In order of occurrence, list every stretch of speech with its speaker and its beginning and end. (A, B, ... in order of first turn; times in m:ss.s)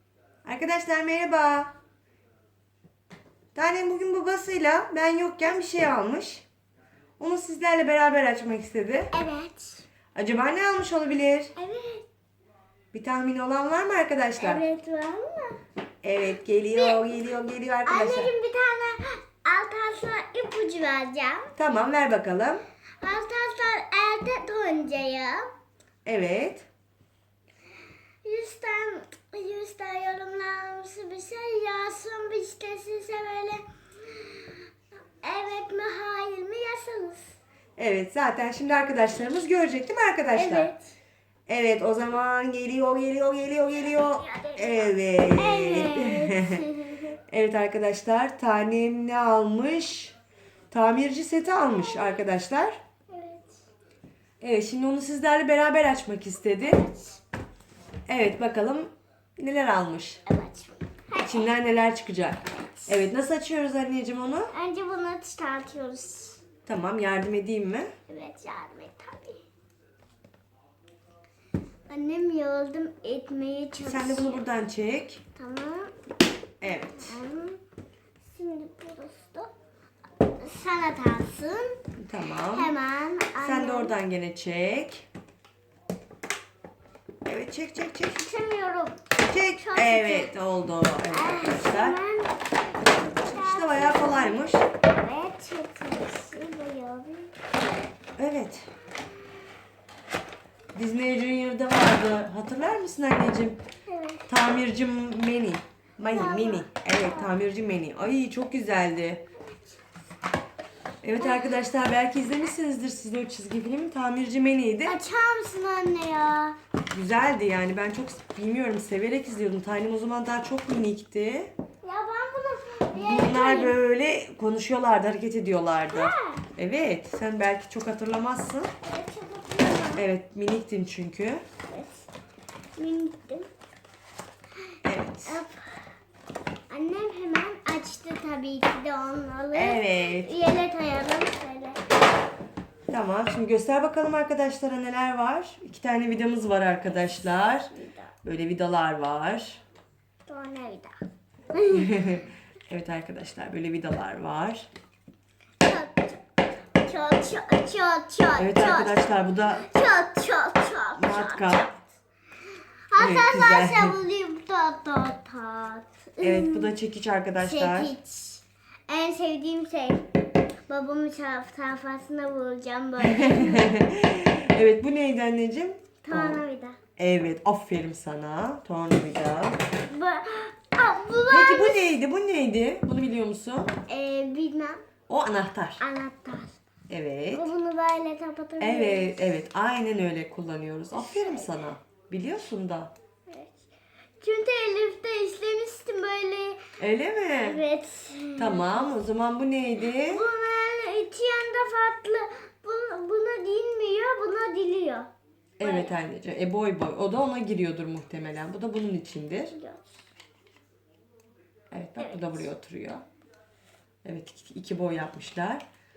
0:00.4-0:01.7 A
0:03.6-0:06.5 A
0:07.2-0:09.1 A
0:09.1-0:09.8 B
0:10.2-0:11.5 A
0:11.6-0:12.0 B
0:12.9-0:14.6 A
0:14.4-0:15.6 B
0:16.0-0:18.3 A
0:16.7-0:17.2 B
0:17.8-0:21.5 B
0:21.6-0:22.6 A
0:23.0-0:25.5 B
0:26.0-0:26.7 A
0:28.2-0:33.6 B
0:34.2-0:34.5 B
0:35.2-0:37.4 B
0:37.8-0:40.7 A
0:40.3-0:40.9 B
0:41.5-0:46.6 A
0:43.9-0:47.2 B
0:47.3-0:50.2 A
0:50.7-0:52.8 A
0:51.6-0:52.2 B
0:53.1-0:53.6 B
0:54.4-0:56.8 A
0:56.7-0:57.2 B
0:58.1-1:00.2 A
1:00.3-1:01.5 B
1:01.2-1:04.5 A
1:04.5-1:06.4 B
1:06.7-1:07.9 A
1:08.1-1:09.4 B
1:11.9-1:14.4 B
1:13.8-1:15.2 A
1:15.4-1:15.9 B
1:16.6-1:17.2 A
1:17.0-1:17.6 B
1:18.3-1:19.5 B
1:20.4-1:21.8 B
1:22.0-1:22.7 A
1:22.5-1:24.0 B
1:23.4-1:25.1 A
1:27.2-1:28.2 A
1:28.1-1:29.0 B
1:29.3-1:32.0 A
1:29.6-1:30.3 B
1:31.1-1:37.3 B
1:33.2-1:34.7 A
1:38.2-1:38.7 A
1:40.8-1:43.6 A
1:43.9-1:44.2 B
1:44.3-1:49.2 A
1:46.1-1:47.3 B
1:51.0-1:55.0 A
1:51.2-1:51.6 B
1:54.9-1:56.6 B
1:56.9-2:01.5 A
2:01.8-2:03.8 B
2:03.0-2:08.7 A
2:05.9-2:06.4 B
2:08.8-2:10.0 B
2:10.0-2:11.4 A
2:11.7-2:12.1 B
2:12.8-2:13.5 B
2:14.8-2:15.4 A
2:15.3-2:15.6 B
2:16.7-2:21.8 B
2:19.5-2:20.3 A
2:22.9-2:27.7 A
2:27.7-2:28.1 B
2:28.2-2:29.6 A
2:30.3-2:30.9 B
2:31.5-2:31.9 B
2:31.7-2:34.7 A
2:35.6-2:39.1 B
2:38.4-2:39.7 A
2:39.6-2:41.7 B
2:41.0-2:41.7 A
2:42.9-2:46.7 B
2:43.0-2:44.0 A
2:46.2-2:48.0 A
2:47.4-2:50.0 B
2:50.7-2:53.7 B
2:53.0-2:56.4 A
2:56.0-2:56.8 B
2:57.0-2:59.6 A
2:59.9-3:01.8 B
3:01.3-3:03.8 A
3:03.9-3:04.8 B
3:05.1-3:05.8 A
3:05.8-3:06.6 B
3:06.9-3:07.5 A
3:07.3-3:09.3 B
3:08.6-3:12.9 A
3:11.0-3:11.5 B
3:13.3-3:13.6 B
3:14.2-3:16.6 B
3:16.8-3:17.6 A
3:17.4-3:18.9 B
3:18.4-3:20.3 A
3:20.1-3:26.0 B
3:25.6-3:29.5 A
3:29.5-3:29.9 B
3:31.7-3:33.0 A
3:32.0-3:32.5 B
3:34.0-3:35.6 A